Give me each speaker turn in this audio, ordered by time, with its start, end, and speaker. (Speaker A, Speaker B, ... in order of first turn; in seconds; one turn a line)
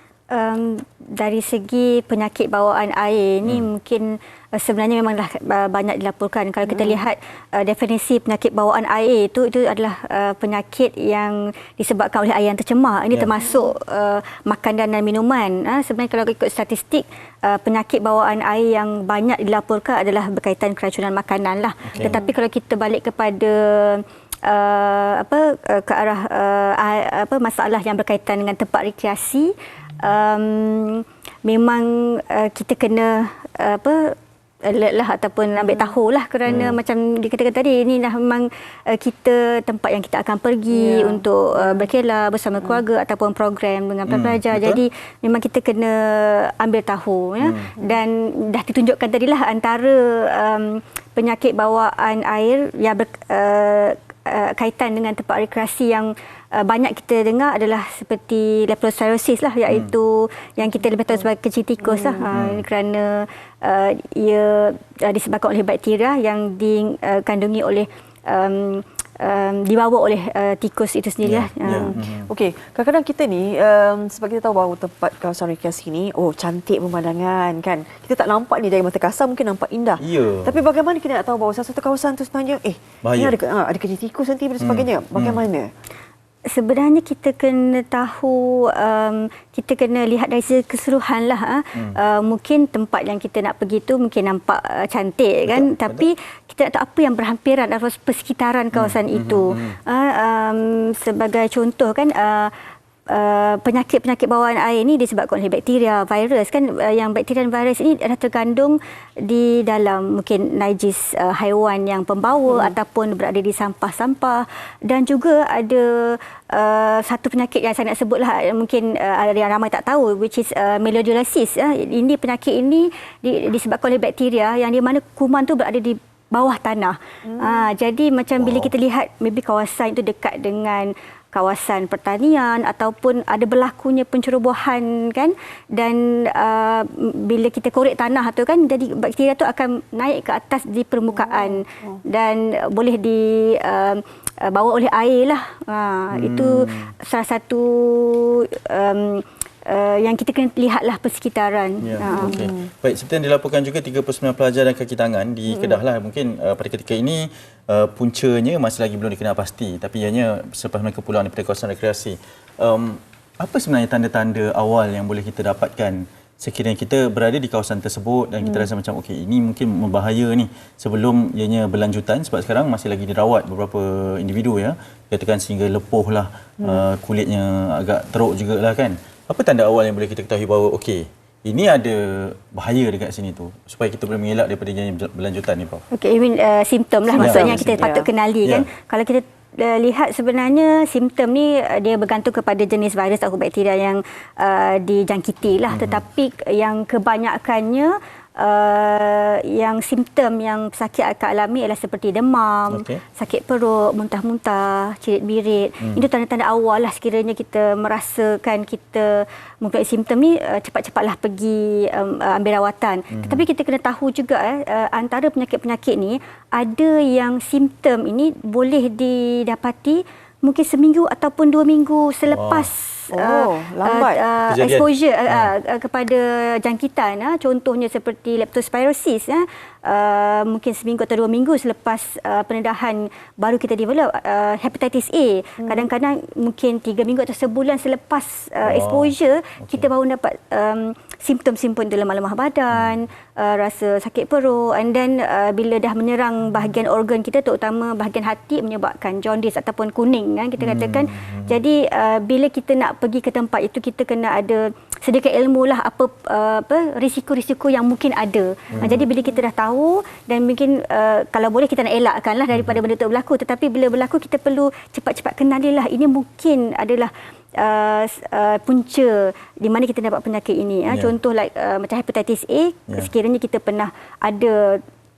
Speaker A: 0.3-71.9
Speaker B: 21.8-22.2
Speaker C: 35.6-35.9
Speaker B: 36.5-36.8
Speaker C: 40.7-41.9
Speaker B: 44.0-44.8
Speaker B: 47.4-47.7
Speaker B: 59.7-59.9
Speaker C: 61.9-62.3
Speaker B: 62.3-62.6
Speaker B: 71.2-72.3
Speaker C: 71.7-85.7
Speaker B: 80.0-80.6
Speaker B: 83.0-83.3
Speaker B: 84.6-85.4
Speaker A: 86.5-102.5
Speaker B: 95.5-96.1
Speaker B: 98.7-99.8
Speaker A: 103.1-152.4
Speaker C: 127.3-127.7
Speaker B: 128.4-128.7
Speaker C: 141.2-141.6
Speaker B: 146.1-146.9
Speaker B: 151.8-185.8
Speaker C: 152.0-152.6
Speaker C: 155.5-155.8
Speaker C: 168.4-168.7
Speaker A: 185.9-274.8
Speaker C: 187.1-188.1
Speaker B: 187.2-187.9
Speaker B: 188.4-188.7
Speaker B: 195.7-196.0
Speaker B: 202.7-203.0
Speaker B: 213.1-213.4
Speaker B: 222.3-222.7
Speaker C: 223.1-224.2
Speaker B: 224.4-225.5
Speaker C: 235.6-235.8
Speaker B: 238.6-239.9
Speaker B: 242.7-243.0
Speaker B: 250.6-251.6
Speaker B: 258.7-259.0
Speaker B: 262.5-262.8
Speaker B: 270.9-271.1